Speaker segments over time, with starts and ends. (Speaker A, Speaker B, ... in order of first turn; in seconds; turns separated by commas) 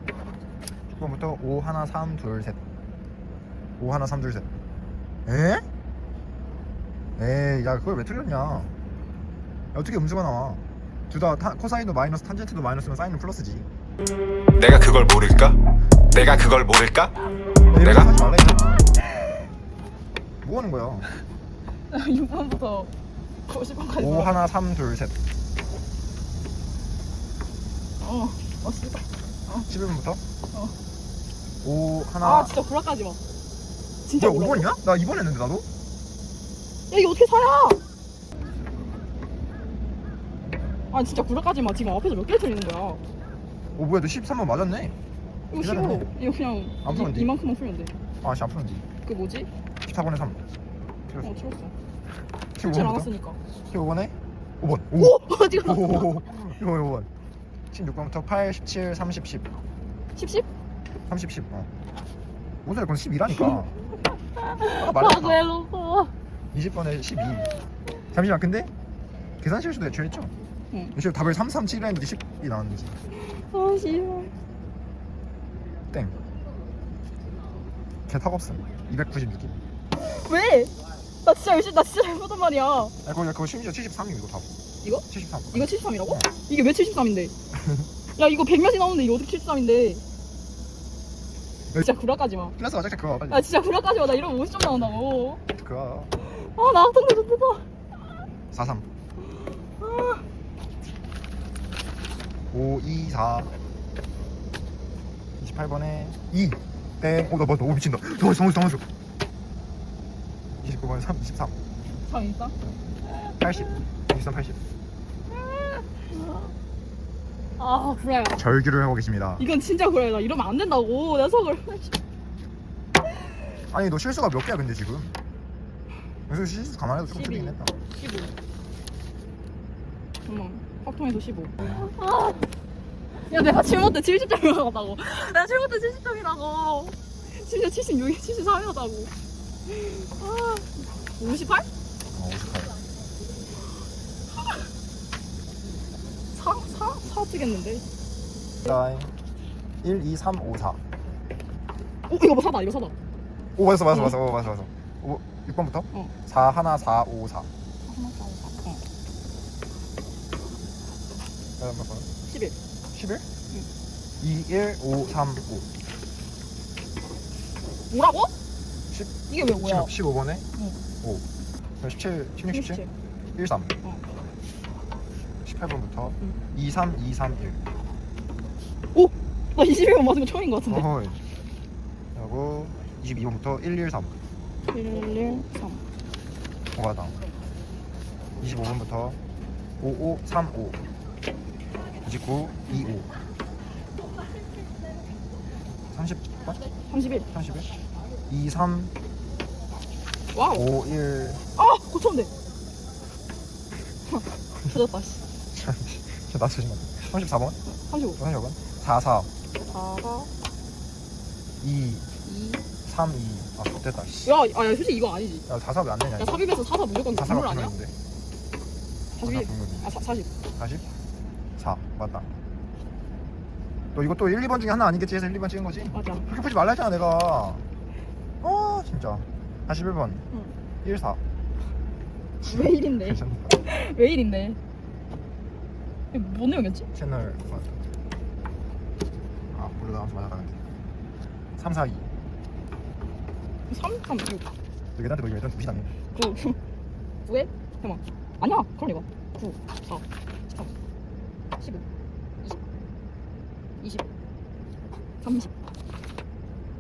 Speaker A: 0.9-2.6, Speaker A: 3.8-4.5, Speaker A: 5.3-5.7, Speaker A: 7.2-8.8, Speaker A: 9.7-13.7, Speaker B: 14.6-17.2, Speaker A: 17.7-18.9, Speaker B: 17.8-18.1, Speaker A: 20.4-21.1, Speaker C: 21.9-22.9, Speaker C: 23.5-24.3, Speaker A: 24.0-25.1, Speaker C: 28.0-29.7, Speaker A: 29.5-30.2, Speaker A: 31.6-32.5, Speaker C: 32.2-33.2, Speaker C: 34.0-34.7, Speaker A: 34.2-35.7, Speaker C: 36.9-37.8, Speaker C: 40.9-43.0, Speaker A: 43.8-45.0, Speaker C: 45.5-47.9, Speaker A: 45.6-46.1, Speaker A: 46.8-47.3, Speaker A: 48.2-48.9, Speaker C: 49.0-49.5, Speaker A: 49.9-50.4, Speaker C: 51.2-51.7, Speaker A: 52.6-53.1, Speaker C: 52.6-53.4, Speaker A: 53.7-57.1, Speaker C: 55.0-56.2, Speaker A: 57.7-59.6, Speaker C: 60.2-60.5, Speaker A: 61.1-61.7, Speaker A: 62.6-63.7, Speaker C: 63.3-63.6, Speaker C: 64.3-66.1, Speaker A: 64.7-65.5, Speaker A: 66.5-67.5, Speaker A: 68.1-68.7, Speaker A: 69.4-70.3, Speaker A: 70.9-73.0, Speaker C: 73.3-74.3, Speaker A: 75.9-76.2, Speaker A: 78.1-79.6, Speaker C: 80.0-80.7, Speaker C: 81.2-82.9, Speaker A: 83.0-84.5, Speaker C: 84.8-87.3, Speaker A: 85.1-86.3, Speaker A: 87.5-87.9, Speaker C: 88.2-90.0, Speaker C: 91.8-92.6, Speaker A: 92.6-93.5, Speaker C: 93.3-95.4, Speaker A: 95.5-96.1, Speaker C: 96.2-97.7, Speaker A: 98.5-98.9, Speaker C: 99.8-100.2, Speaker A: 102.5-103.5, Speaker A: 105.4-108.8, Speaker A: 110.6-111.6, Speaker C: 112.0-112.6, Speaker A: 113.4-114.6, Speaker C: 115.4-116.5, Speaker C: 117.6-118.4, Speaker A: 118.3-119.4, Speaker C: 119.4-122.0, Speaker A: 123.7-125.1, Speaker A: 126.3-127.8, Speaker C: 127.1-128.3, Speaker C: 130.3-132.5, Speaker A: 131.6-131.9, Speaker C: 133.3-139.1, Speaker C: 139.7-141.7, Speaker A: 142.1-142.8, Speaker C: 146.3-147.8, Speaker A: 148.6-149.1, Speaker A: 149.8-150.8, Speaker C: 152.1-152.9, Speaker A: 153.6-157.5, Speaker C: 157.8-158.8, Speaker A: 161.6-162.1, Speaker C: 162.3-162.6, Speaker A: 162.9-163.3, Speaker A: 164.2-165.7, Speaker C: 167.9-168.3, Speaker A: 168.9-170.5, Speaker C: 169.3-169.9, Speaker A: 171.8-172.8, Speaker C: 172.5-172.9, Speaker A: 173.4-173.7, Speaker A: 175.4-177.6, Speaker C: 178.9-180.9, Speaker A: 180.7-181.2, Speaker A: 182.1-184.2, Speaker C: 184.7-185.8, Speaker A: 186.7-187.2, Speaker A: 188.4-189.2, Speaker A: 189.8-190.8, Speaker A: 192.0-193.1, Speaker A: 195.9-196.6, Speaker C: 196.9-197.3, Speaker A: 197.3-197.8, Speaker A: 198.3-198.9, Speaker C: 200.3-200.6, Speaker A: 200.5-201.4, Speaker C: 201.6-202.3, Speaker C: 204.1-205.2, Speaker A: 205.5-207.6, Speaker C: 207.7-208.2, Speaker A: 208.2-209.3, Speaker C: 209.7-210.3, Speaker A: 211.6-212.1, Speaker C: 212.2-212.6, Speaker A: 212.8-214.3, Speaker C: 214.2-215.5, Speaker A: 215.5-216.4, Speaker C: 216.2-217.7, Speaker A: 217.1-217.9, Speaker C: 219.2-220.3, Speaker A: 219.2-219.9, Speaker A: 220.6-220.8, Speaker A: 221.6-222.3, Speaker A: 223.9-227.7, Speaker C: 225.9-226.3, Speaker A: 228.4-230.2, Speaker A: 230.8-231.2, Speaker C: 232.4-234.6, Speaker A: 232.4-233.6, Speaker C: 236.1-236.9, Speaker A: 236.9-237.8, Speaker A: 239.5-240.6, Speaker A: 241.6-242.1, Speaker C: 243.7-244.6, Speaker A: 244.9-245.9, Speaker C: 246.1-246.6, Speaker C: 247.2-250.7, Speaker C: 251.6-251.8, Speaker C: 253.8-254.1, Speaker C: 255.2-255.5